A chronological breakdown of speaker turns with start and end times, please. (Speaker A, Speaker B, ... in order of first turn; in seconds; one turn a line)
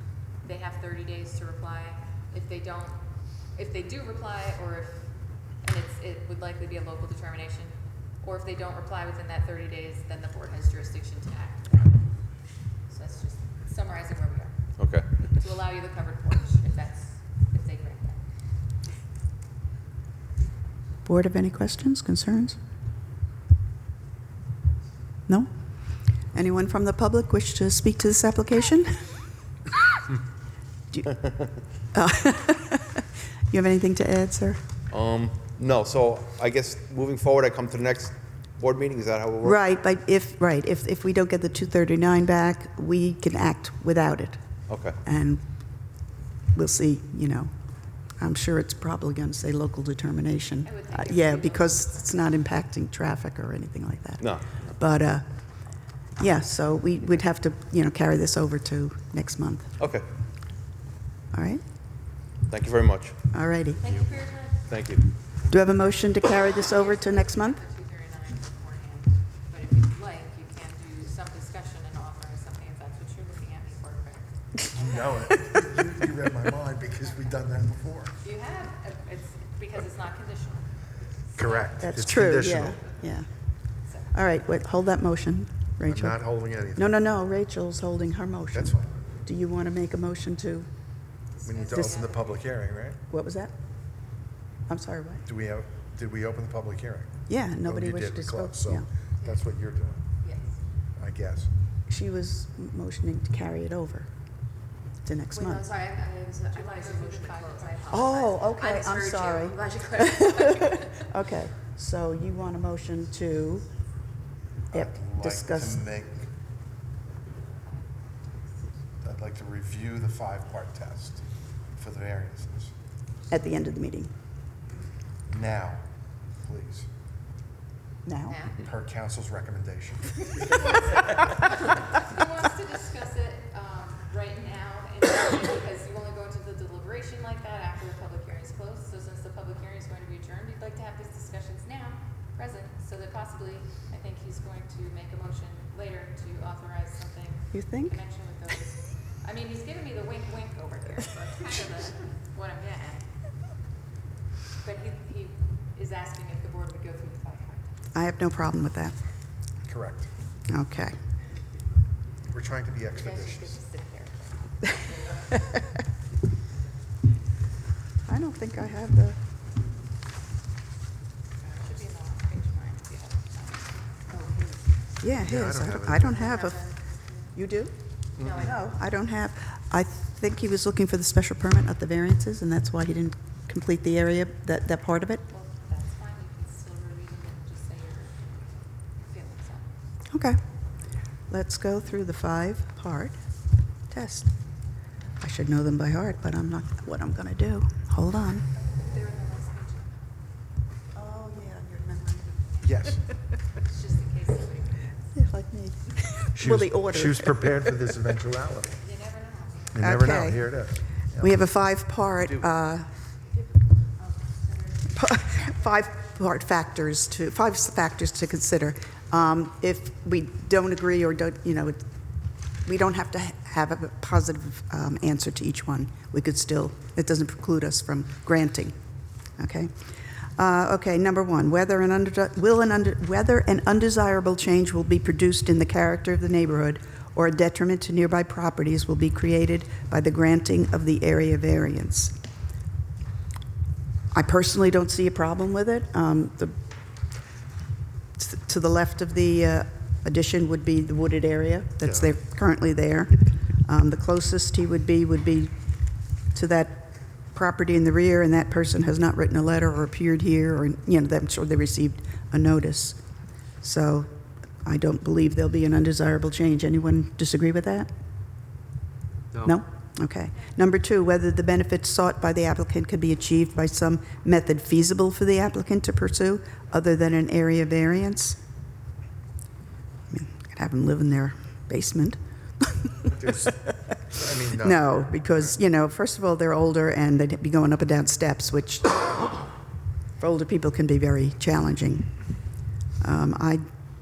Speaker A: 0.4-12.2
Speaker A: 12.8-14.7
Speaker B: 14.8-15.1
Speaker A: 15.2-18.2
Speaker C: 21.0-22.6
Speaker C: 26.2-29.2
Speaker C: 30.9-34.6
Speaker B: 34.9-39.6
Speaker C: 39.4-44.4
Speaker B: 44.7-45.0
Speaker C: 45.0-45.4
Speaker C: 46.5-47.5
Speaker C: 48.1-59.8
Speaker A: 50.6-52.1
Speaker B: 54.2-54.7
Speaker B: 59.8-60.1
Speaker C: 61.3-61.6
Speaker B: 62.5-63.2
Speaker C: 63.3-63.9
Speaker A: 63.8-64.7
Speaker B: 64.6-65.1
Speaker C: 65.5-67.6
Speaker A: 66.5-75.1
Speaker D: 74.8-78.1
Speaker A: 77.0-77.4
Speaker A: 78.2-82.7
Speaker D: 81.4-82.8
Speaker C: 81.8-88.7
Speaker A: 83.8-84.1
Speaker D: 85.8-87.0
Speaker D: 88.5-89.0
Speaker C: 89.2-90.7
Speaker A: 91.3-92.4
Speaker D: 91.4-93.0
Speaker C: 91.7-92.0
Speaker C: 93.1-93.5
Speaker C: 94.7-95.2
Speaker D: 95.3-100.0
Speaker C: 97.3-98.9
Speaker A: 99.2-99.5
Speaker A: 100.2-100.6
Speaker D: 101.0-101.5
Speaker C: 101.9-104.1
Speaker C: 105.0-105.7
Speaker E: 105.3-111.1
Speaker A: 106.5-108.6
Speaker C: 107.9-113.7
Speaker D: 114.7-116.3
Speaker C: 114.7-115.8
Speaker A: 117.5-118.7
Speaker D: 119.0-121.2
Speaker D: 121.8-122.7
Speaker C: 123.3-124.1
Speaker D: 125.3-125.8
Speaker D: 126.4-126.9
Speaker C: 128.1-128.4
Speaker A: 128.3-128.6
Speaker D: 128.6-130.7
Speaker A: 130.7-153.1
Speaker C: 147.5-148.0
Speaker A: 154.6-157.8
Speaker C: 157.9-159.0
Speaker D: 159.6-160.1
Speaker C: 160.5-160.9
Speaker D: 162.3-163.6
Speaker A: 162.9-165.3
Speaker C: 168.1-169.2
Speaker A: 171.4-174.1
Speaker E: 174.1-174.7
Speaker C: 175.0-185.2
Speaker D: 175.2-176.2
Speaker E: 176.1-177.3
Speaker E: 178.2-178.5
Speaker A: 178.2-178.5
Speaker A: 185.3-188.2
Speaker A: 189.0-189.7
Speaker C: 190.1-190.4
Speaker C: 191.3-193.2
Speaker C: 193.9-194.3
Speaker C: 195.2-198.5
Speaker A: 198.6-200.1
Speaker C: 200.9-202.4
Speaker D: 202.6-203.0
Speaker A: 203.6-205.2
Speaker C: 205.1-207.7
Speaker D: 206.3-208.8
Speaker A: 208.8-209.9
Speaker D: 209.7-211.4
Speaker C: 209.8-210.7
Speaker C: 211.2-212.9
Speaker E: 213.3-215.0
Speaker C: 214.9-221.8
Speaker C: 222.6-228.8
Speaker C: 229.4-229.7
Speaker C: 230.3-242.2
Speaker C: 244.1-246.6
Speaker C: 248.2-263.0
Speaker C: 263.6-264.1
Speaker C: 264.6-267.9
Speaker C: 269.4-278.4
Speaker C: 280.1-283.0
Speaker D: 283.1-285.6
Speaker C: 284.6-289.5
Speaker C: 290.2-292.4
Speaker C: 293.0-293.6